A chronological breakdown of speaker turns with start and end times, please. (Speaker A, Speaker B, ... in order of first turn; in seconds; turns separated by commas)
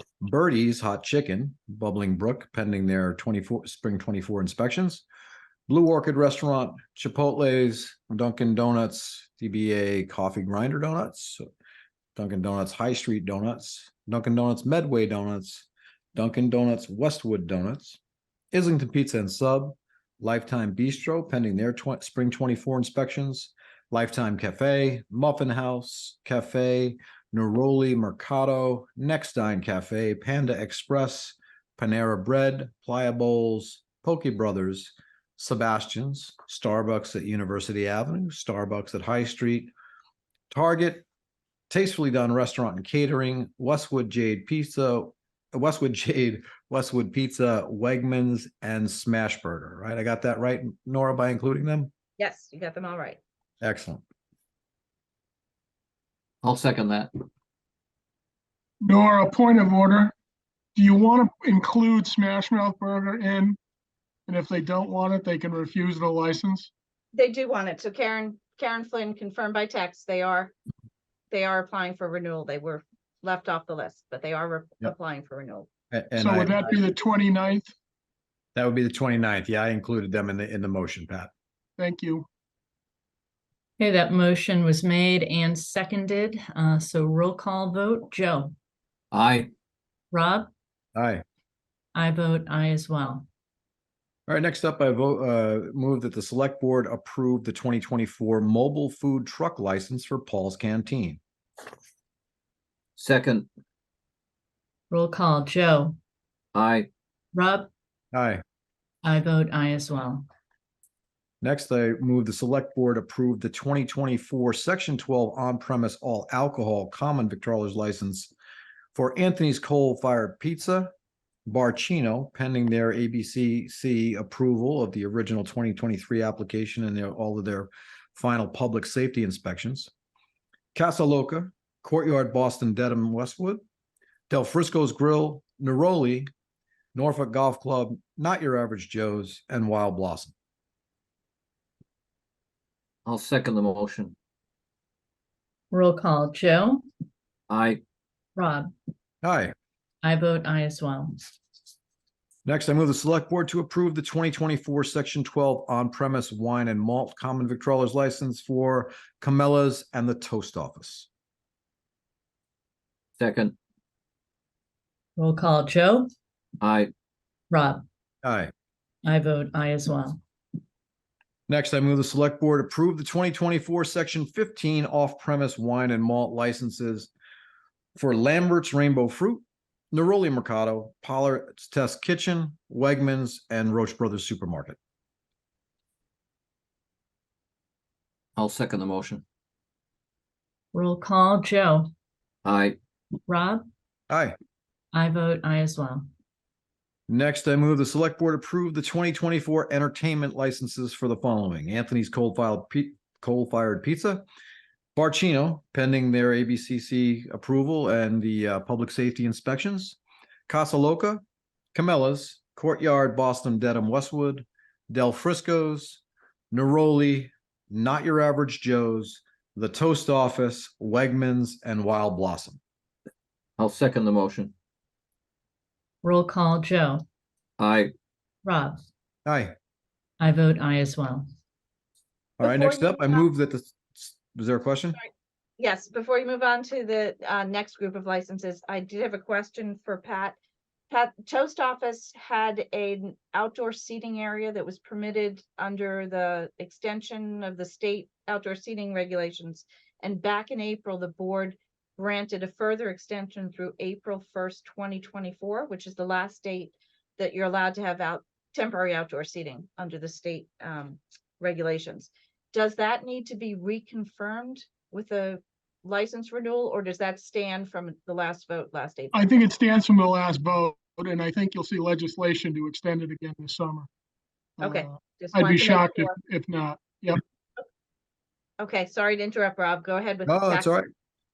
Speaker A: 0.2-5.0, Speaker A: 5.7-11.4, Speaker A: 12.2-18.0, Speaker A: 18.5-39.7, Speaker A: 40.5-41.0, Speaker A: 41.7-51.9, Speaker B: 52.2-53.2, Speaker A: 53.6-54.0, Speaker C: 56.4-57.2, Speaker D: 58.8-60.1, Speaker D: 60.8-63.6, Speaker D: 64.3-66.7, Speaker B: 67.1-70.5, Speaker B: 71.3-75.7, Speaker A: 75.9-76.8, Speaker D: 76.2-77.7, Speaker A: 78.5-81.3, Speaker D: 81.8-82.3, Speaker E: 83.8-88.5, Speaker C: 89.1-89.5, Speaker E: 90.1-90.5, Speaker A: 90.9-91.2, Speaker E: 91.9-93.3, Speaker A: 94.3-101.2, Speaker C: 103.0-103.5, Speaker E: 104.9-106.0, Speaker C: 106.5-106.9, Speaker E: 107.3-107.7, Speaker A: 108.1-108.4, Speaker E: 109.0-110.2, Speaker A: 111.4-118.3, Speaker A: 118.9-120.9, Speaker A: 121.5-129.9, Speaker A: 130.7-133.6, Speaker A: 134.3-136.3, Speaker A: 136.9-140.3, Speaker C: 143.0-144.2, Speaker E: 145.7-146.8, Speaker C: 147.5-147.8, Speaker E: 148.3-148.7, Speaker A: 149.2-149.5, Speaker E: 150.0-151.2, Speaker A: 152.4-161.1, Speaker C: 163.2-163.6, Speaker E: 165.2-166.1, Speaker C: 166.6-166.9, Speaker E: 167.5-167.8, Speaker A: 168.2-168.5, Speaker E: 169.0-170.2, Speaker A: 171.5-177.1, Speaker A: 177.9-184.8, Speaker C: 188.3-189.2, Speaker E: 190.7-191.9, Speaker C: 192.4-192.8, Speaker E: 193.3-193.6, Speaker A: 194.1-194.3, Speaker E: 194.9-196.1, Speaker A: 197.1-204.2, Speaker A: 204.9-211.2, Speaker A: 211.7-216.0, Speaker A: 216.5-222.6, Speaker C: 223.6-224.5, Speaker E: 226.0-227.0, Speaker C: 227.6-227.9, Speaker E: 228.4-228.8, Speaker A: 229.2-229.5, Speaker E: 230.2-231.3, Speaker A: 232.4-235.0, Speaker B: 232.4-233.2, Speaker B: 235.6-240.3, Speaker B: 240.9-269.4, Speaker D: 269.1-273.9, Speaker B: 274.6-276.1, Speaker D: 275.3-277.2, Speaker B: 278.6-280.7, Speaker A: 280.2-280.9